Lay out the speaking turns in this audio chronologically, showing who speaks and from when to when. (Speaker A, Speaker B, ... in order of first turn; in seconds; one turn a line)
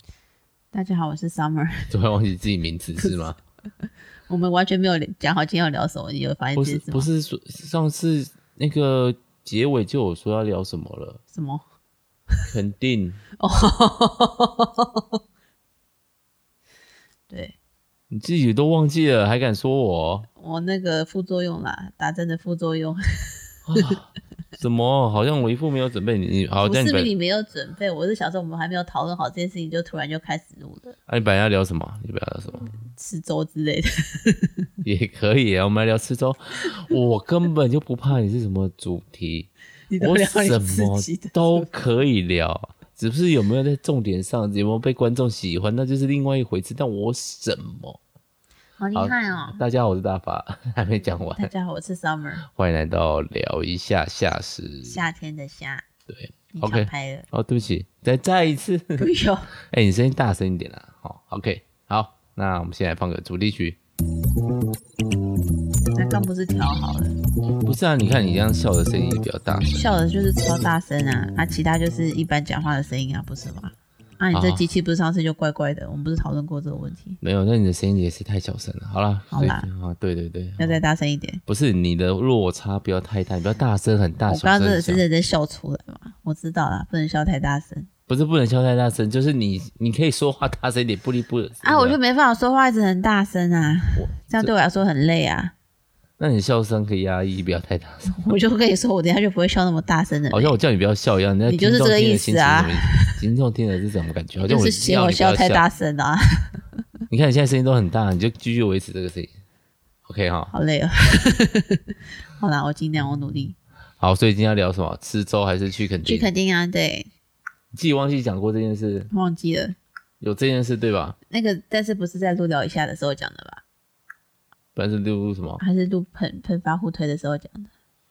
Speaker A: 0.7-1.9
Speaker B: 1.9-3.4
Speaker A: 4.3-7.1
Speaker B: 6.5-11.2
Speaker A: 11.3-11.6
Speaker B: 12.5-13.2
Speaker A: 13.4-15.2
Speaker A: 17.3-17.6
Speaker B: 18.1-20.3
Speaker A: 20.4-23.8
Speaker B: 23.7-27.1
Speaker A: 26.6-30.9
Speaker B: 31.1-32.8
Speaker A: 32.7-34.7
Speaker B: 34.8-48.0
Speaker A: 39.9-41.7
Speaker A: 48.8-49.6
Speaker B: 49.0-51.5
Speaker A: 51.0-52.4
Speaker B: 52.5-55.0
Speaker A: 54.8-55.9
Speaker B: 56.1-59.1
Speaker A: 56.5-57.3
Speaker A: 59.0-59.5
Speaker B: 59.7-63.8
Speaker A: 66.0-67.2
Speaker B: 67.6-70.0
Speaker A: 69.7-77.2
Speaker B: 74.3-74.7
Speaker B: 77.2-80.8
Speaker A: 79.3-79.7
Speaker A: 80.6-81.4
Speaker B: 81.5-85.0
Speaker A: 84.3-87.9
Speaker B: 88.1-92.0
Speaker A: 91.6-95.5
Speaker B: 94.0-94.5
Speaker B: 96.2-98.3
Speaker A: 98.1-100.5
Speaker B: 100.3-105.7
Speaker A: 101.5-103.1
Speaker A: 104.4-106.5
Speaker B: 107.1-109.3
Speaker B: 110.1-110.5
Speaker A: 110.5-113.6
Speaker B: 114.0-116.3
Speaker A: 116.0-117.1
Speaker B: 117.7-119.1
Speaker A: 119.1-119.8
Speaker B: 120.2-121.2
Speaker A: 121.3-123.6
Speaker B: 124.8-125.6
Speaker A: 125.6-127.7